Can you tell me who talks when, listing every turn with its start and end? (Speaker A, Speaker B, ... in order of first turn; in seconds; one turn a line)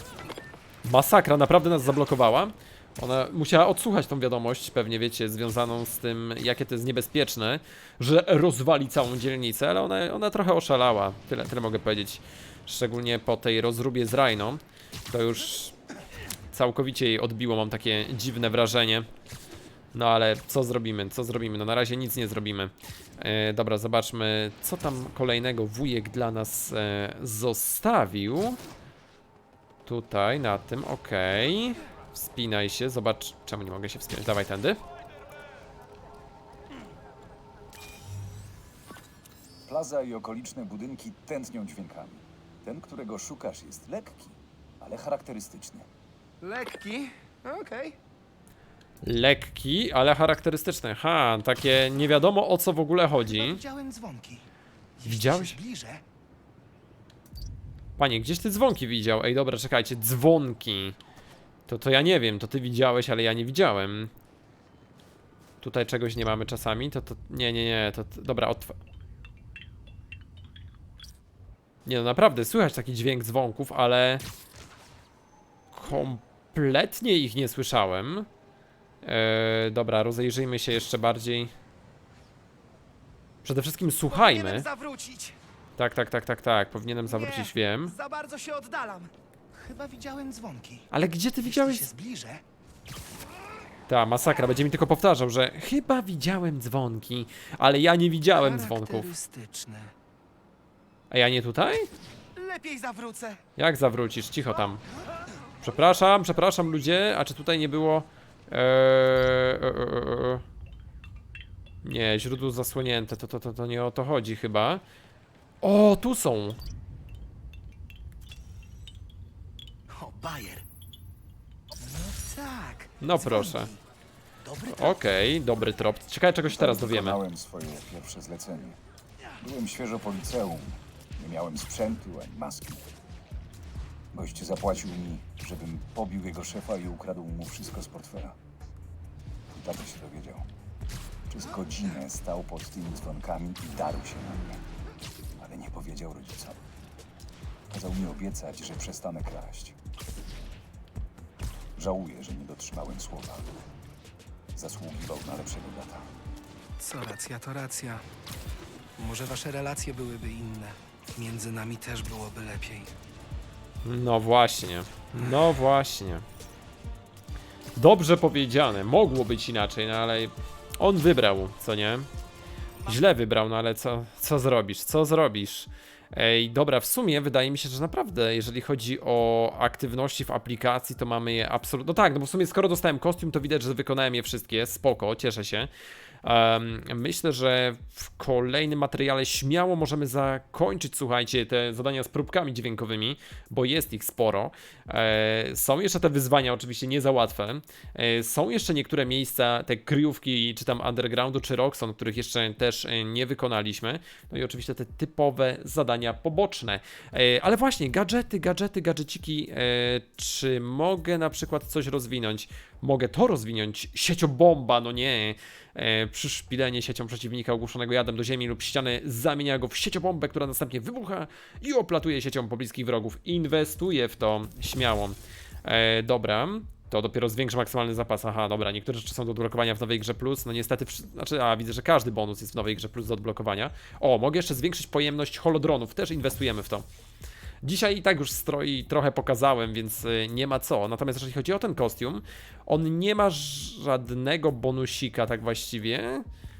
Speaker A: 0.8-15.8
Speaker A: 16.5-19.1
Speaker A: 19.9-28.6
Speaker A: 29.9-34.8
Speaker B: 39.7-45.9
Speaker C: 46.4-48.0
Speaker A: 49.0-53.6
Speaker C: 53.3-54.5
Speaker C: 55.0-56.0
Speaker A: 55.0-55.6
Speaker A: 58.0-61.0
Speaker A: 61.7-64.1
Speaker A: 65.6-68.8
Speaker A: 71.9-74.2
Speaker A: 75.7-78.3
Speaker A: 79.0-81.5
Speaker A: 83.4-84.7
Speaker C: 84.1-85.4
Speaker A: 85.8-88.0
Speaker C: 87.0-90.9
Speaker A: 90.9-91.9
Speaker C: 91.4-92.4
Speaker A: 93.9-99.1
Speaker C: 98.3-99.9
Speaker A: 101.1-101.9
Speaker C: 102.4-103.4
Speaker A: 103.6-104.8
Speaker A: 105.6-110.4
Speaker A: 111.8-114.8
Speaker A: 115.6-116.6
Speaker C: 119.9-120.6
Speaker C: 121.8-123.8
Speaker A: 123.0-123.7
Speaker C: 124.4-125.0
Speaker A: 124.7-127.2
Speaker B: 126.5-128.8
Speaker B: 129.4-132.8
Speaker B: 134.1-138.4
Speaker B: 139.5-140.5
Speaker B: 141.3-144.6
Speaker B: 145.4-146.6
Speaker B: 147.7-149.8
Speaker B: 151.8-153.6
Speaker B: 154.5-156.1
Speaker C: 156.8-158.0
Speaker C: 159.0-162.9
Speaker A: 163.8-166.2
Speaker A: 167.8-172.1
Speaker A: 172.9-185.7
Speaker A: 186.2-236.9
Speaker A: 237.6-246.2